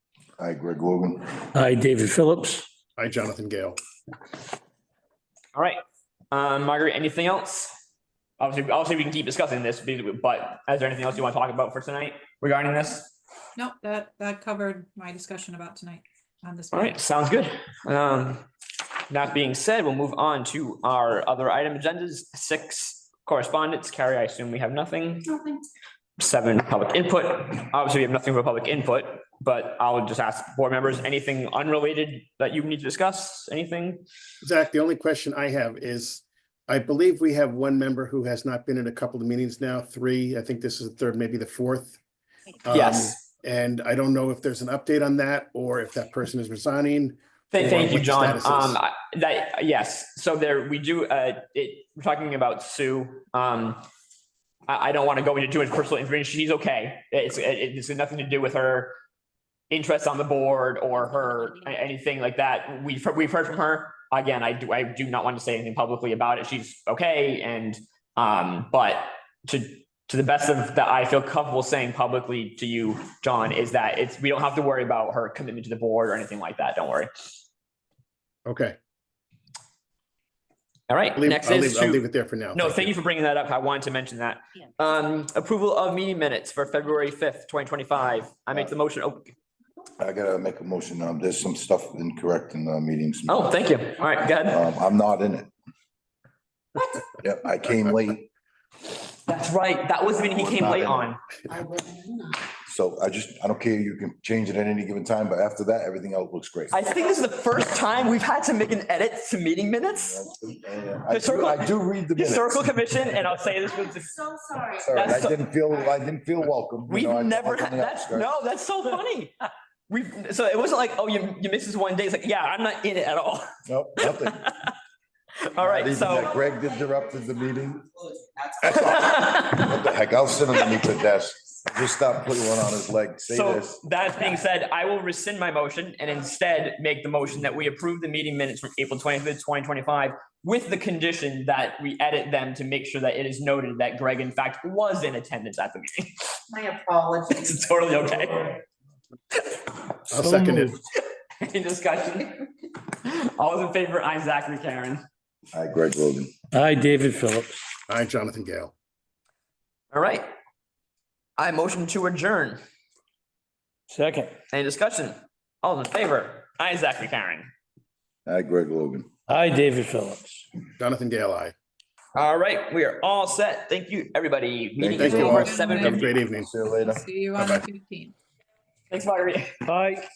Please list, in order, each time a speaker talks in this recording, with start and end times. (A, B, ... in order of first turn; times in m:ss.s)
0:00.4-0:01.3 A
0:01.6-0:02.7 B
0:03.0-0:03.8 C
0:05.6-0:05.8 D
0:06.3-0:07.7 D
0:08.4-0:13.1 D
0:13.6-0:17.0 E
0:16.7-0:18.4 D
0:19.1-0:25.4 D
0:26.2-0:34.0 D
0:34.4-0:42.0 C
0:42.6-0:48.8 C
0:42.7-0:43.2 D
0:47.5-0:53.8 D
0:54.7-0:58.9 D
0:59.7-1:17.1 D
1:18.5-1:18.8 C
1:20.9-1:22.0 D
1:21.2-1:22.9 C
1:22.6-1:29.3 D
1:30.0-1:33.5 A
1:33.3-1:34.6 D
1:34.5-1:35.5 A
1:37.2-1:38.3 A
1:39.3-1:41.2 D
1:41.5-1:42.4 F
1:42.7-1:46.8 A
1:46.7-1:50.3 D
1:50.0-1:52.8 A
1:51.1-1:54.2 D
1:54.0-1:54.8 F
1:54.8-1:55.4 D
1:54.8-1:58.4 A
1:56.9-2:04.7 D
2:03.7-2:04.4 A
2:05.4-2:06.4 D
2:05.6-2:07.9 A
2:08.6-2:09.8 D
2:08.6-2:13.8 A
2:13.3-2:26.4 D
2:26.5-2:27.6 F
2:27.3-2:28.6 D
2:29.4-2:29.7 D
2:30.1-2:30.7 C
2:30.1-2:30.8 B
2:31.4-2:35.0 D
2:35.5-2:36.3 A
2:36.5-2:37.6 B
2:37.9-2:38.7 C
2:39.9-2:40.3 D
2:41.4-2:42.6 D
2:43.9-2:44.3 B
2:44.5-2:47.5 D
2:48.3-2:49.1 A
2:49.3-2:50.5 B
2:50.8-2:51.5 C
2:52.2-2:56.2 D
2:54.8-2:55.5 A
2:54.9-2:56.5 C
2:55.0-2:58.2 E
2:56.4-2:57.0 A
2:57.4-2:57.6 C
2:58.9-2:59.5 D
2:59.6-3:00.0 B